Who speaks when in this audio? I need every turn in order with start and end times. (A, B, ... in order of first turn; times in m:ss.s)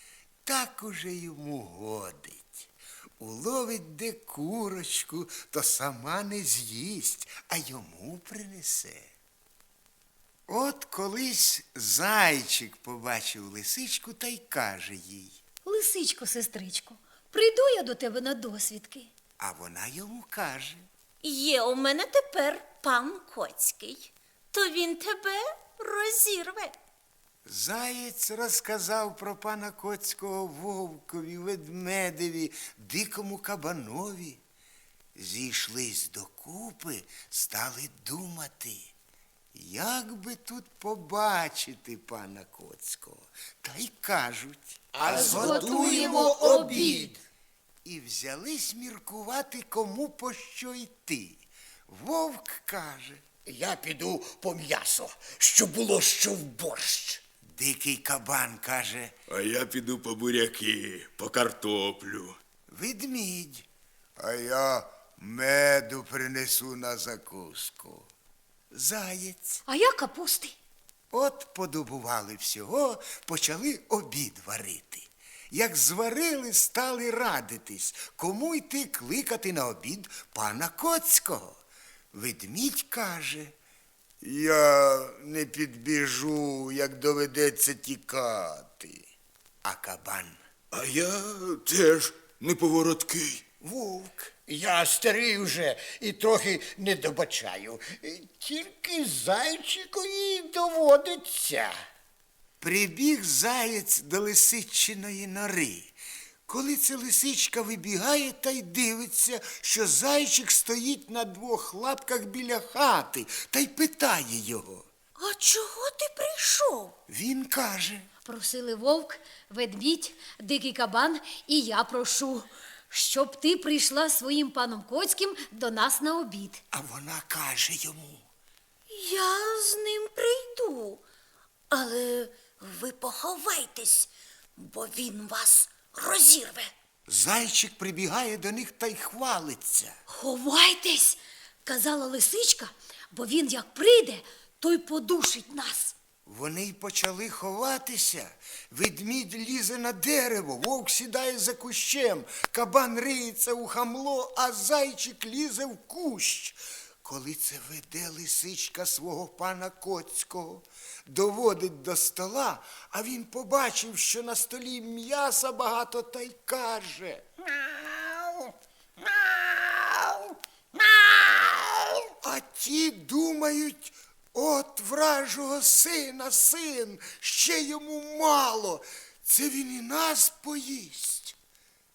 0:00.4-0:09.1 A
0:10.5-0:15.4 A
0:15.6-0:19.1 B
0:19.4-0:20.8 A
0:21.2-0:26.8 C
0:27.4-0:34.4 A
0:35.1-0:38.9 A
0:39.5-0:46.5 A
0:45.0-0:47.2 D
0:45.1-0:46.9 B
0:47.8-0:53.3 A
0:53.4-0:57.2 D
0:57.5-0:59.2 A
0:59.3-1:02.4 E
1:02.7-1:03.7 A
1:04.2-1:08.1 A
1:08.7-1:09.6 A
1:09.6-1:10.6 B
1:11.1-1:21.6 A
1:22.1-1:23.5 A
1:24.2-1:29.1 A
1:29.6-1:30.4 A
1:30.7-1:33.4 E
1:33.6-1:34.4 A
1:34.5-1:41.7 D
1:42.6-1:45.9 A
1:46.5-1:54.9 A
1:55.2-1:56.9 C
1:57.1-1:58.1 A
1:58.2-2:06.6 B
2:06.7-2:08.2 A
2:08.9-2:11.0 C
2:11.7-2:16.7 C
2:17.1-2:20.0 A
2:20.1-2:25.9 B
2:26.2-2:48.5 A
2:49.0-3:01.4 A